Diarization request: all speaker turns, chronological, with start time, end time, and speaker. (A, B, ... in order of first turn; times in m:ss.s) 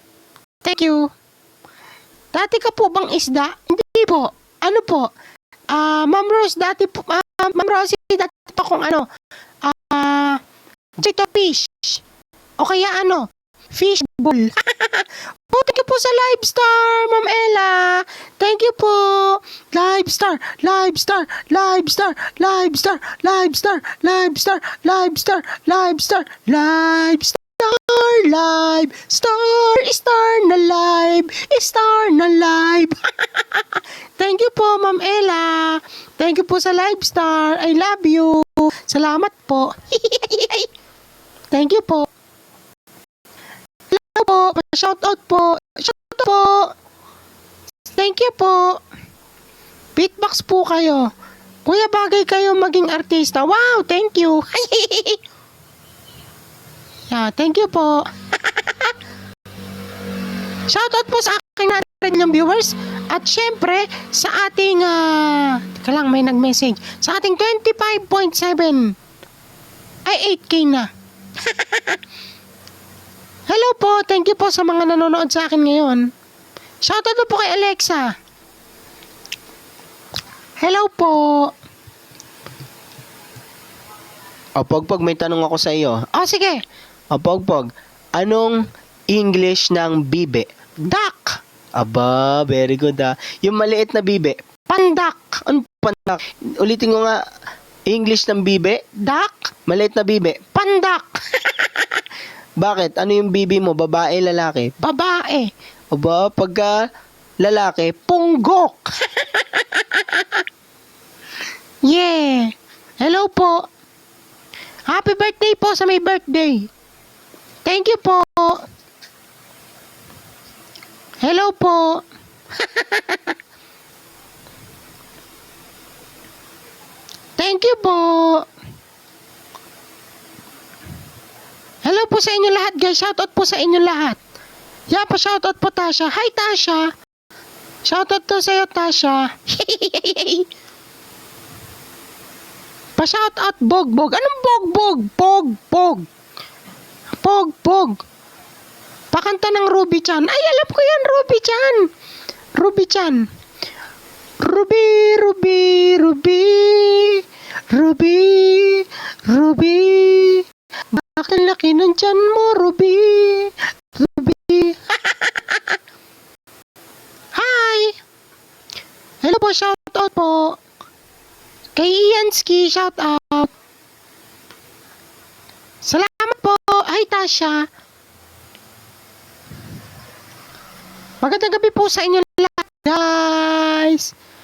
0:00.6-0:01.1 A
0:02.3-0:05.1 A
0:05.7-0:09.1 A
0:09.6-0:10.4 A
0:11.0-0:12.0 A
0:12.6-0:40.7 A
0:41.5-0:42.1 A
0:43.9-0:46.7 A
0:47.9-0:48.8 A
0:49.9-0:51.1 A
0:51.6-0:55.2 A
0:57.1-0:58.9 A
1:00.7-1:08.9 A
1:10.0-1:10.9 A
1:11.4-1:12.0 A
1:13.5-1:16.0 A
1:16.8-1:18.1 A
1:20.6-1:21.5 A
1:24.6-1:26.0 B
1:26.1-1:26.6 A
1:27.1-1:28.6 B
1:29.1-1:30.5 B
1:30.8-1:31.4 A
1:31.8-1:34.4 B
1:34.7-1:35.9 A
1:35.9-1:37.2 B
1:37.9-1:38.8 B
1:39.0-1:39.5 A
1:39.7-1:40.4 B
1:40.5-1:42.0 A
1:42.6-1:44.7 B
1:44.8-1:45.5 A
1:45.9-1:46.8 B
1:47.4-1:48.0 B
1:48.0-1:50.4 A
1:51.8-1:53.6 A
1:54.9-1:56.7 A
1:57.6-1:58.6 A
2:01.2-2:02.0 A
2:02.6-2:03.3 A
2:07.4-2:08.5 A
2:11.8-2:14.2 A
2:14.9-2:16.9 A
2:17.8-2:20.5 A
2:23.0-2:26.1 A
2:27.2-2:28.0 A
2:29.1-2:31.9 A
2:32.6-2:33.2 A
2:34.4-2:45.8 A
2:47.3-2:47.9 A
2:49.2-2:50.6 A
2:51.8-2:53.5 A
2:55.8-2:57.6 A
3:01.2-3:04.1 A